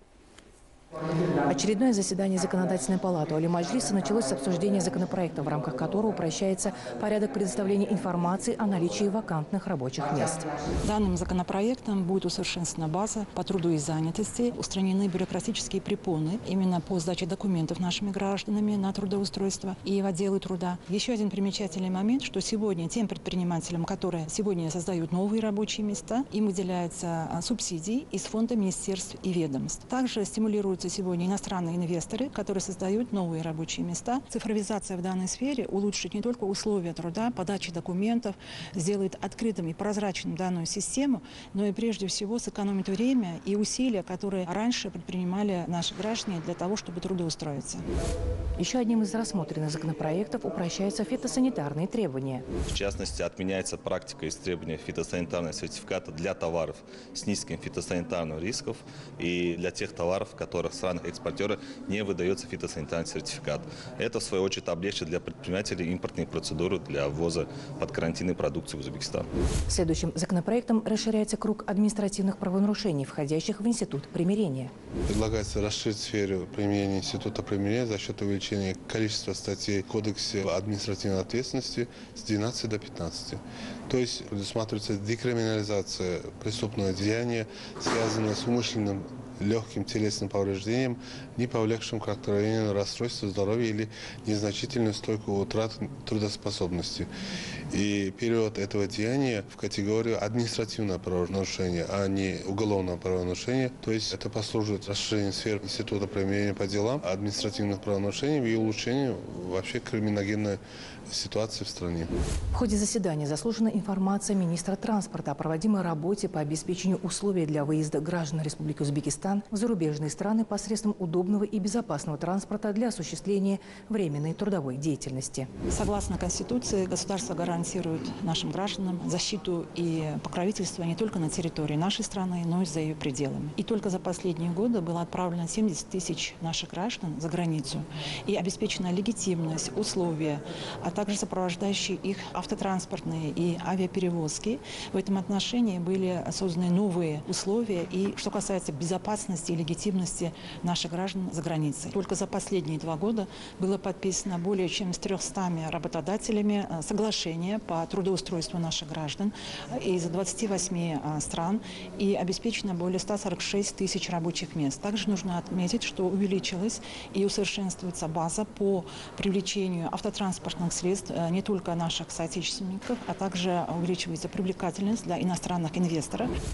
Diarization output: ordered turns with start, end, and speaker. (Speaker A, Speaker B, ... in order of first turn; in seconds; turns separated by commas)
Speaker A: 1.5-10.5, Speaker B: 10.8-47.9, Speaker A: 48.6-52.4, Speaker C: 52.7-69.3, Speaker A: 69.7-74.7, Speaker D: 75.1-97.1, Speaker D: 97.7-112.1, Speaker A: 112.5-125.5, Speaker B: 125.7-176.3